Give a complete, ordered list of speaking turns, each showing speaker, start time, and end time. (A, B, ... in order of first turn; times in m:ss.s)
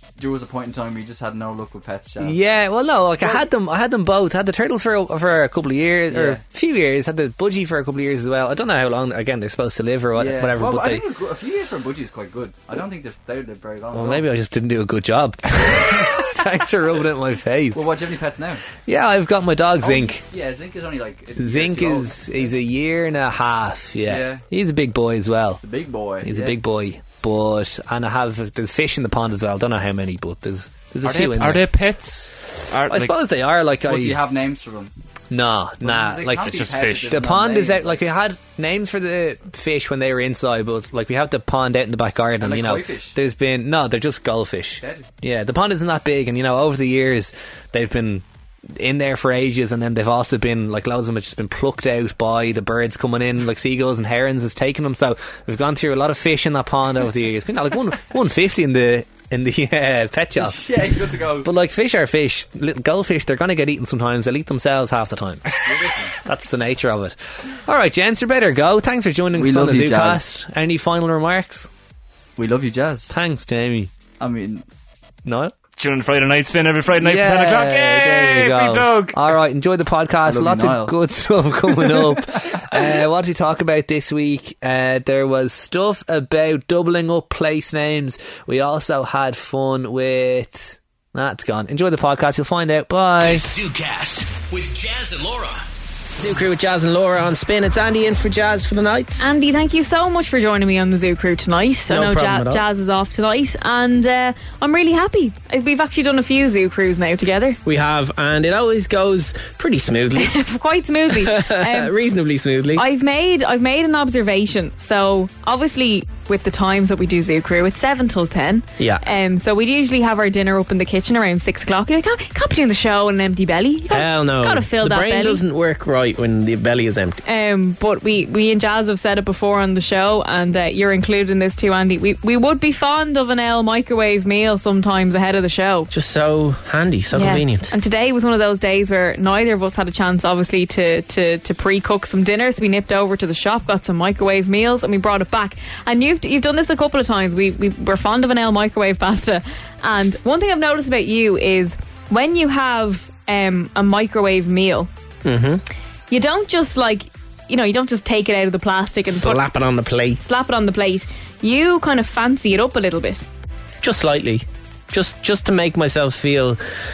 0:00.2-0:02.5 A
0:02.2-0:11.0 B
0:03.2-0:03.5 A
0:06.1-0:06.4 A
0:10.1-0:14.3 A
0:13.9-0:17.8 B
0:17.7-0:18.6 A
0:18.8-0:20.2 B
0:19.8-0:22.6 A
0:21.4-0:25.6 B
0:24.0-0:24.4 A
0:25.6-0:26.6 A
0:26.2-0:31.6 B
0:31.1-0:31.5 A
0:31.2-0:33.2 C
0:32.9-0:34.2 B
0:33.8-0:34.9 A
0:35.3-0:48.2 B
0:35.8-0:38.1 A
0:36.4-0:37.2 C
0:42.4-0:43.2 A
0:44.8-0:45.1 A
0:48.8-1:00.6 B
1:00.4-1:01.5 A
1:01.4-1:05.4 B
1:05.6-1:06.2 A
1:06.2-1:11.7 B
1:09.3-1:10.3 A
1:12.4-1:13.2 A
1:13.1-1:13.9 B
1:14.2-1:14.6 A
1:15.2-1:15.5 B
1:15.8-1:19.4 C
1:17.0-1:33.4 B
1:20.2-1:21.0 A
1:21.6-1:23.0 A
1:33.2-1:35.6 D
1:36.2-1:39.2 E
1:39.2-1:47.6 F
1:41.9-1:42.6 E
1:47.6-1:50.3 E
1:50.2-1:51.9 F
1:51.1-1:52.8 E
1:52.7-2:05.4 F
2:03.9-2:07.2 E
2:07.2-2:15.9 F
2:15.9-2:17.7 E
2:17.1-2:34.9 F
2:35.2-2:35.6 E
2:36.1-2:39.4 F
2:39.1-2:40.2 E
2:40.2-2:43.2 F
2:43.8-2:46.6 E